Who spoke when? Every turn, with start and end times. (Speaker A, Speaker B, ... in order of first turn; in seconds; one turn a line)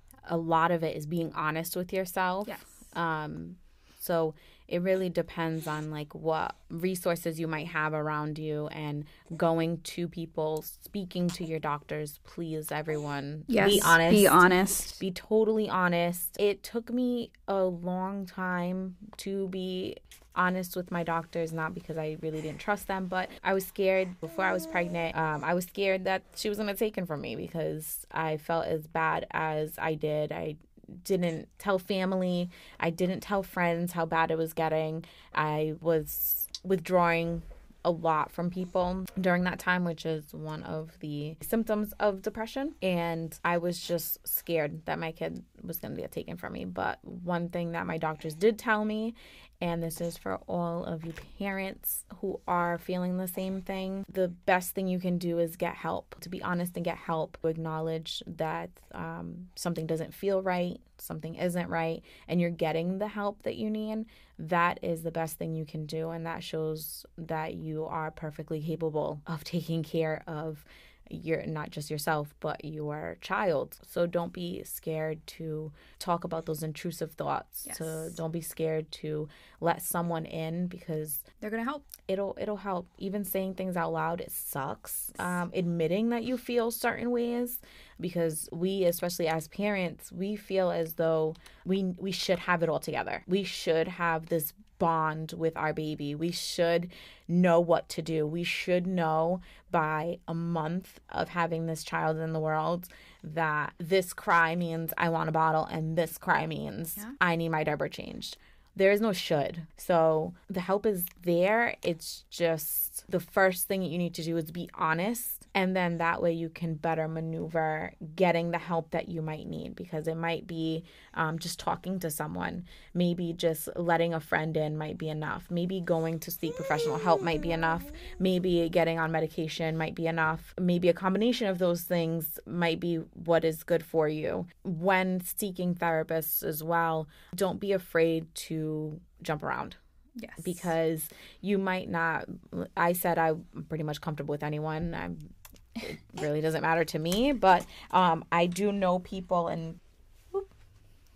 Speaker A: 0.2-14.4
Speaker B: 2.5-2.8
Speaker B: 13.5-15.0
Speaker A: 15.0-81.2
Speaker B: 77.7-78.2
Speaker B: 81.4-81.9
Speaker A: 82.1-139.8
Speaker B: 140.2-140.7
Speaker A: 140.4-149.8